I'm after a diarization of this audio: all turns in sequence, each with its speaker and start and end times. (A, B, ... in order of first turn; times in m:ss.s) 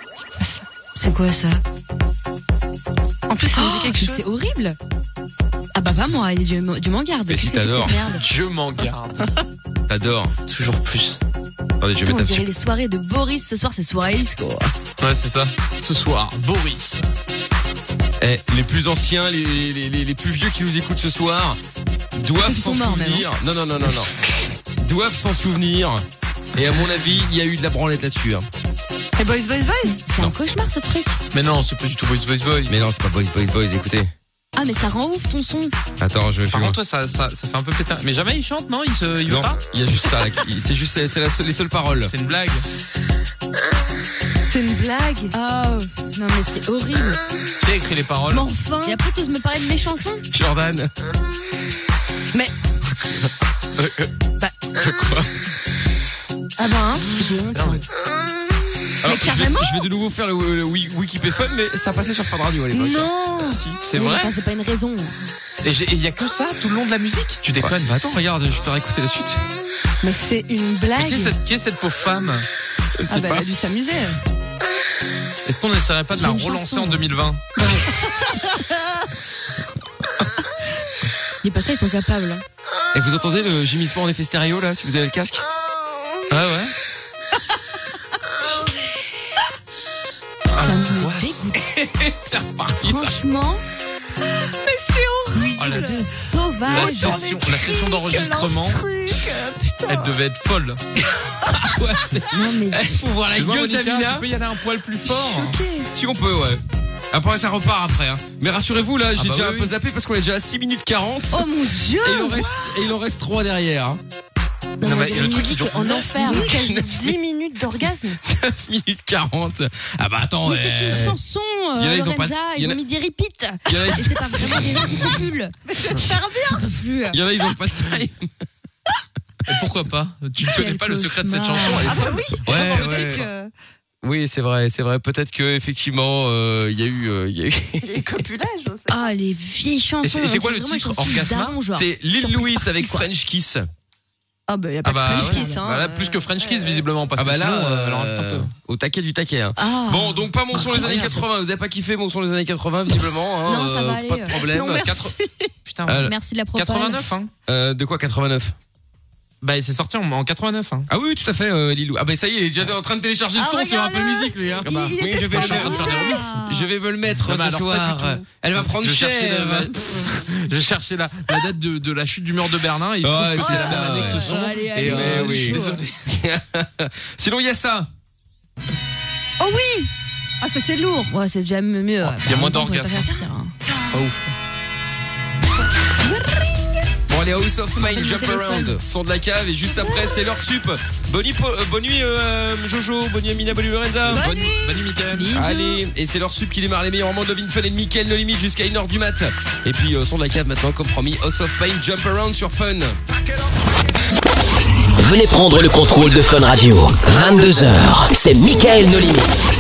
0:00.4-0:00.6 A
0:01.0-0:01.6 B
0:03.3-0:04.2 A
0:03.5-0:04.8 B
0:05.7-0:08.2 B
0:07.3-0:08.0 C
0:08.2-0:09.2 D
0:09.9-0:10.3 C
0:10.5-0:11.2 D
0:11.8-0:12.4 C
0:12.0-0:14.7 B
0:15.0-0:17.0 D
0:18.2-0:21.6 C
0:22.1-0:24.1 C
0:22.4-0:23.3 B
0:24.8-0:28.5 C
0:29.2-0:30.0 A
0:29.9-0:31.2 B
0:31.3-0:32.8 D
0:32.7-0:34.1 C
0:34.6-0:35.7 B
0:36.0-0:36.8 C
0:36.5-0:39.6 D
0:39.2-0:42.1 C
0:42.1-0:42.6 D
0:44.4-0:45.3 A
0:45.3-0:47.2 B
0:47.6-0:48.5 D
0:48.3-0:49.0 A
0:48.8-0:50.2 B
0:50.3-0:50.9 C
0:53.8-0:54.1 D
0:54.6-0:55.3 D
0:56.6-0:57.8 B
0:57.5-0:57.8 D
0:59.0-1:03.6 C
0:59.0-0:59.7 A
1:02.7-1:03.6 A
1:03.7-1:04.3 D
1:03.9-1:05.2 B
1:05.6-1:08.2 D
1:07.6-1:09.4 C
1:10.0-1:11.3 A
1:10.9-1:12.5 D
1:13.0-1:13.4 C
1:13.1-1:14.2 A
1:15.4-1:17.4 D
1:16.2-1:17.0 B
1:17.6-1:18.8 A
1:21.4-1:22.4 B
1:22.9-1:25.4 C
1:26.3-1:26.7 D
1:30.5-1:31.4 D
1:30.5-1:31.6 B
1:31.6-1:33.2 C
1:32.8-1:33.6 B
1:34.6-1:36.1 A
1:35.3-1:37.3 B
1:35.6-1:35.9 D
1:36.6-1:40.2 A
1:36.7-1:38.8 D
1:39.9-1:40.8 D
1:41.4-1:41.7 A
1:41.5-1:44.3 C
1:42.3-1:43.1 B
1:43.3-1:45.6 D
1:45.1-1:45.9 A
1:45.9-1:54.0 C
1:49.2-1:49.7 D
1:51.3-1:52.5 A
1:54.8-1:56.5 B
1:54.8-1:56.4 D
1:56.1-1:58.2 A
1:56.3-1:57.2 C
1:57.8-2:01.2 C
2:00.4-2:05.5 B
2:01.8-2:02.8 C
2:03.7-2:05.1 C
2:05.7-2:06.7 A
2:06.5-2:07.2 B
2:07.1-2:08.3 C
2:09.4-2:13.2 D
2:10.4-2:12.0 B
2:11.8-2:13.5 A
2:12.4-2:13.3 C
2:14.0-2:18.2 C
2:17.8-2:19.1 A
2:18.9-2:23.1 B
2:20.0-2:21.6 D
2:21.7-2:23.7 C
2:24.5-2:26.8 A
2:24.8-2:28.5 D
2:25.1-2:25.6 B
2:27.2-2:35.0 C
2:29.6-2:31.0 B
2:30.5-2:31.2 D
2:33.4-2:34.4 B
2:34.3-2:35.5 A
2:34.8-2:35.1 D
2:35.6-2:37.3 D
2:35.8-2:36.1 C
2:35.9-2:37.1 B
2:37.5-2:38.5 C
2:39.4-2:40.9 D
2:40.9-2:49.7 C
2:43.4-2:46.3 A
2:44.5-2:46.3 D
2:45.6-2:46.7 B
2:47.2-2:55.9 D
2:53.0-2:57.9 C
2:53.4-2:55.8 B
2:59.4-3:01.1 A
3:01.1-3:03.5 B
3:02.0-3:03.2 D
3:03.9-3:04.3 D
3:06.0-3:06.4 B
3:07.1-3:14.6 C
3:07.8-3:08.8 B
3:09.6-3:10.2 A
3:14.1-3:14.8 A
3:14.1-3:15.4 D
3:15.1-3:15.8 B
3:15.3-3:23.0 C
3:25.0-3:29.3 E